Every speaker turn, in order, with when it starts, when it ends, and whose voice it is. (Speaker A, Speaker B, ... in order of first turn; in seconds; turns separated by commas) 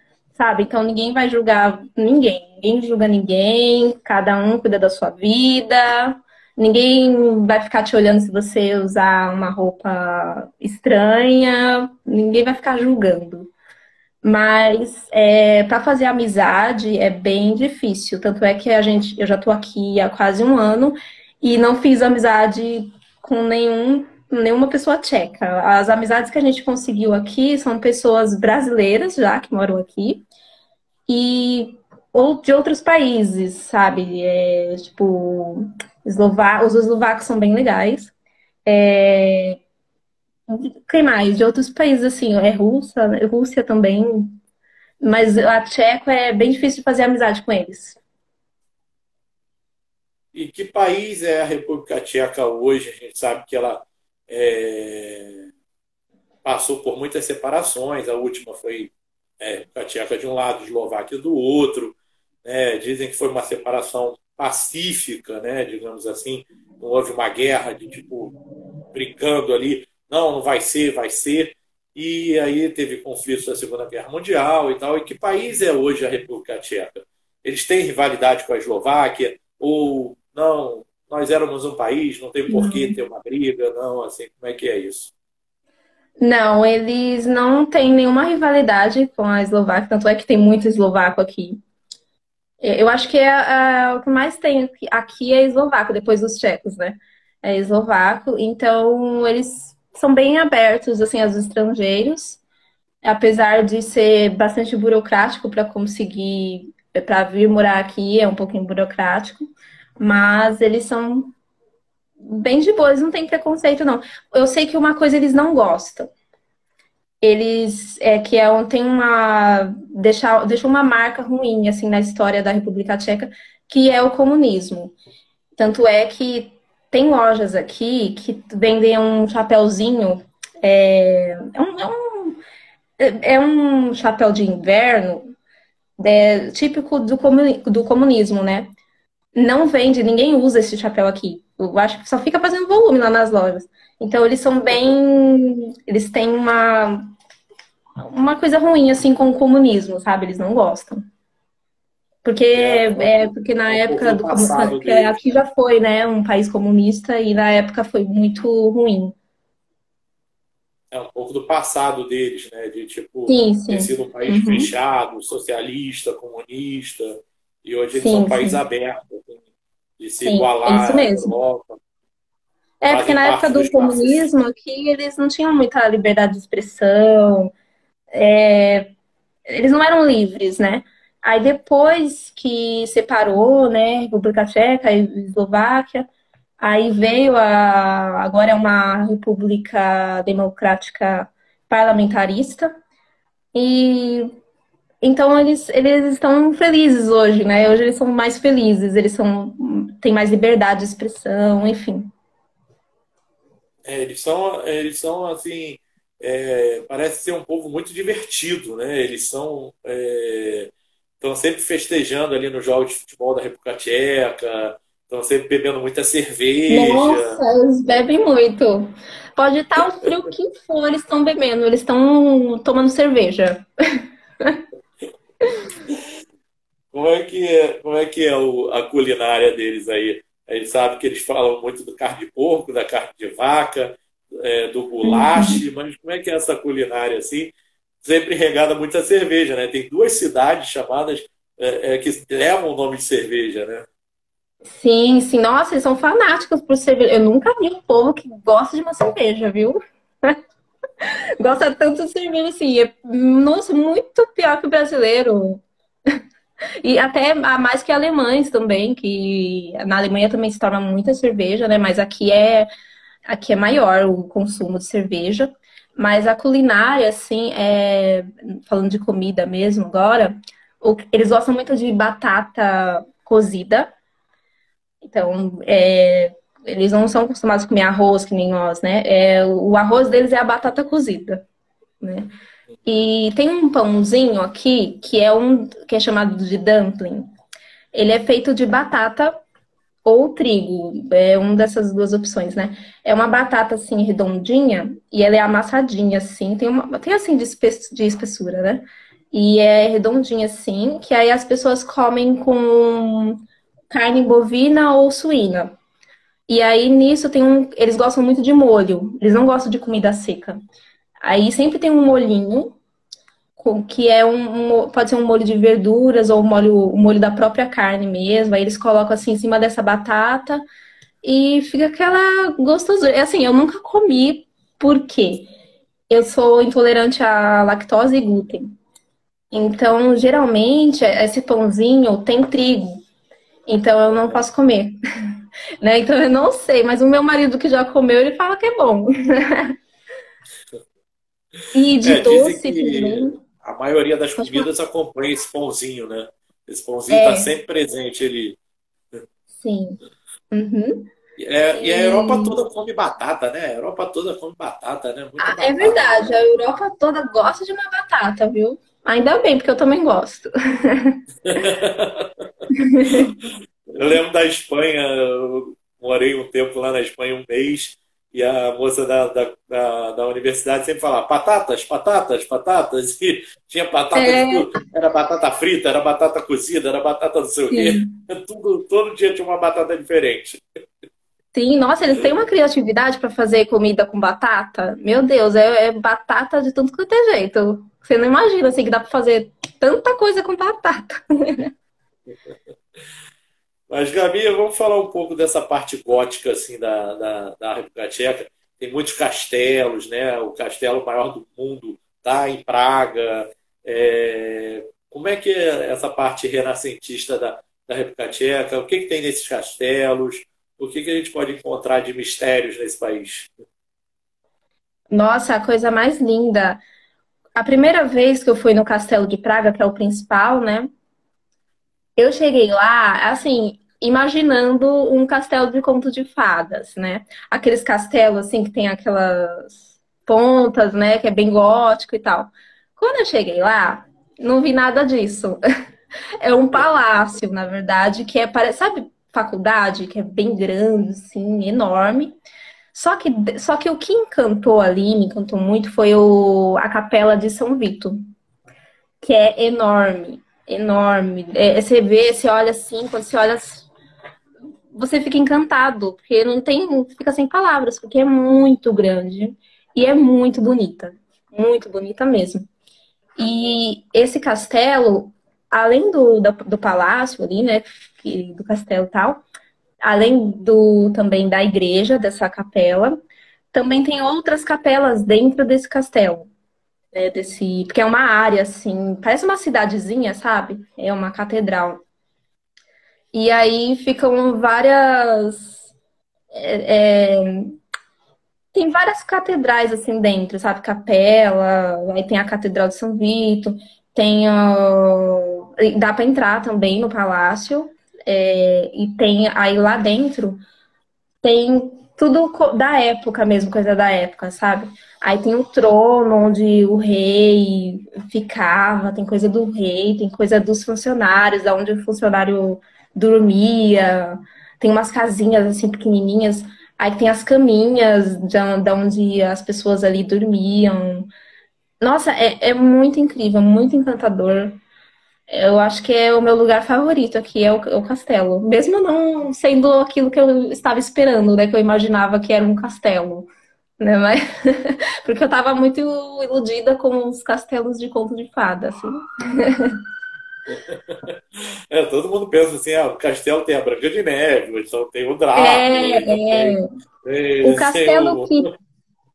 Speaker A: 0.3-13.5, Speaker A: 14.2-30.2, Speaker A: 31.1-38.1, Speaker A: 38.6-39.6, Speaker A: 40.5-44.4, Speaker A: 45.0-48.0, Speaker B: 50.3-55.5, Speaker B: 56.4-68.3, Speaker B: 68.9-85.1, Speaker A: 82.5-83.0, Speaker A: 86.2-91.6, Speaker A: 92.6-102.4, Speaker A: 103.0-109.4, Speaker A: 110.0-111.3, Speaker A: 112.2-116.1, Speaker A: 117.2-125.0, Speaker A: 125.5-132.4, Speaker A: 133.0-135.3, Speaker A: 136.0-138.7, Speaker A: 139.3-147.1, Speaker A: 148.0-151.1, Speaker A: 152.2-159.1, Speaker B: 152.5-155.2, Speaker B: 160.9-169.4, Speaker A: 163.3-164.7, Speaker A: 167.9-168.6, Speaker B: 170.0-171.8, Speaker A: 170.2-171.3, Speaker B: 172.8-174.3, Speaker A: 172.8-177.5, Speaker A: 178.1-178.9, Speaker A: 179.5-192.7, Speaker A: 193.5-194.3, Speaker A: 195.0-202.1, Speaker B: 203.8-217.4, Speaker A: 216.7-223.6, Speaker B: 226.9-243.8, Speaker A: 235.0-235.6, Speaker A: 244.7-250.4, Speaker A: 251.4-255.6, Speaker A: 256.8-262.7, Speaker A: 263.3-273.9, Speaker A: 275.0-281.4, Speaker A: 282.0-282.3, Speaker A: 282.9-287.3, Speaker A: 287.9-289.4, Speaker A: 290.0-305.8, Speaker A: 306.5-310.6, Speaker A: 311.2-312.7, Speaker A: 313.6-320.6, Speaker A: 321.2-325.5, Speaker A: 326.1-328.7, Speaker A: 329.5-333.0, Speaker A: 333.7-335.0, Speaker B: 334.1-334.4, Speaker A: 335.8-339.7, Speaker A: 341.7-343.4, Speaker B: 342.0-348.6, Speaker A: 344.4-344.7, Speaker A: 347.1-347.5, Speaker A: 349.5-350.0, Speaker A: 350.5-351.1, Speaker B: 351.4-356.2, Speaker A: 351.7-352.6, Speaker A: 355.4-361.2, Speaker B: 361.4-362.5, Speaker A: 362.7-363.3, Speaker B: 363.1-380.6, Speaker A: 374.1-374.6, Speaker A: 377.7-378.1, Speaker A: 381.5-391.7, Speaker B: 393.9-413.5, Speaker A: 415.1-416.8, Speaker A: 417.6-420.9, Speaker A: 422.2-435.6, Speaker A: 436.4-442.3, Speaker A: 442.9-448.2, Speaker A: 449.2-453.9, Speaker A: 454.9-462.6, Speaker A: 463.4-469.4, Speaker A: 470.0-473.1, Speaker A: 473.7-476.5, Speaker A: 477.1-482.0, Speaker A: 483.3-485.9, Speaker A: 486.5-487.8, Speaker A: 488.7-500.6, Speaker A: 501.4-521.3, Speaker A: 522.0-524.8, Speaker A: 525.5-533.5, Speaker A: 534.0-540.0, Speaker B: 540.7-548.6, Speaker A: 545.5-546.8, Speaker A: 547.6-548.7